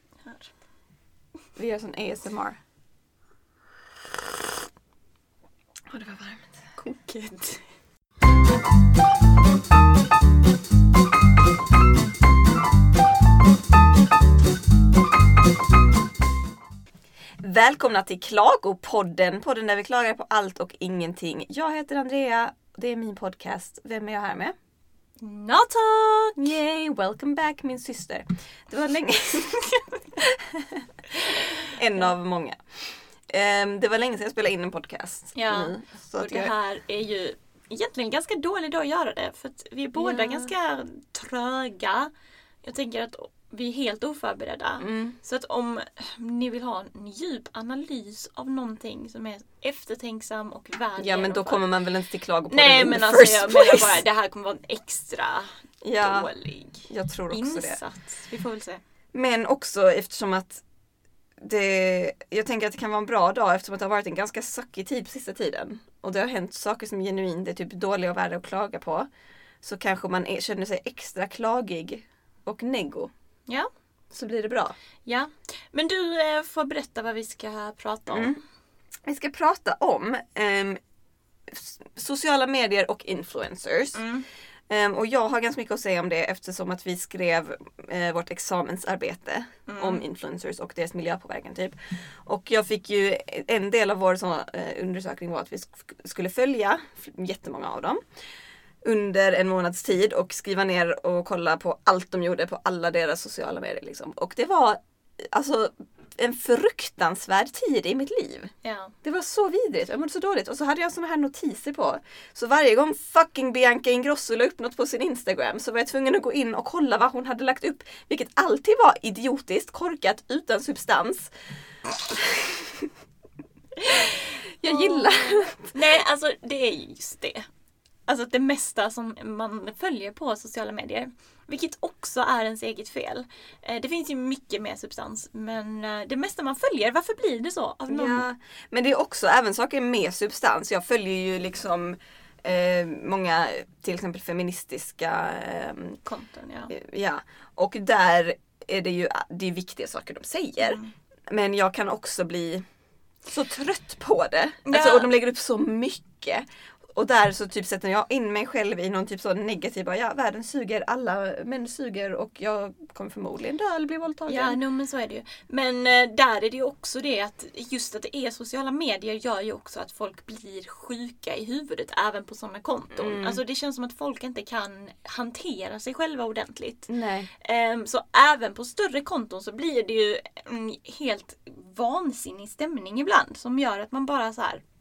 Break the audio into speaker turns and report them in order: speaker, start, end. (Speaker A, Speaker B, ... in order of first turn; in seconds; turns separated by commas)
Speaker A: 0.2-0.5, Speaker B: 1.6-2.6, Speaker B: 5.9-6.6, Speaker A: 6.8-7.7, Speaker B: 17.4-24.6, Speaker A: 25.2-26.4, Speaker B: 26.4-36.5, Speaker A: 35.4-42.1, Speaker B: 40.0-40.5, Speaker A: 42.6-51.7, Speaker B: 44.8-45.2, Speaker B: 51.0-54.0, Speaker A: 52.5-58.8, Speaker B: 55.8-56.3, Speaker B: 56.9-57.8, Speaker B: 59.1-60.6, Speaker B: 61.4-69.1, Speaker B: 69.6-73.1, Speaker B: 74.1-74.8, Speaker A: 75.0-78.4, Speaker B: 78.1-78.4, Speaker B: 79.1-80.8, Speaker B: 81.5-84.0, Speaker A: 84.0-84.3, Speaker B: 84.7-98.0, Speaker A: 89.7-90.0, Speaker B: 98.8-121.3, Speaker A: 108.6-108.9, Speaker B: 122.1-122.9, Speaker B: 123.9-125.8, Speaker A: 124.7-127.5, Speaker A: 128.1-138.2, Speaker B: 137.9-146.0, Speaker A: 146.1-146.7, Speaker B: 146.7-152.7, Speaker A: 150.6-150.9, Speaker B: 153.2-164.6, Speaker A: 154.7-155.1, Speaker A: 164.3-184.6, Speaker B: 173.0-173.4, Speaker B: 176.9-177.3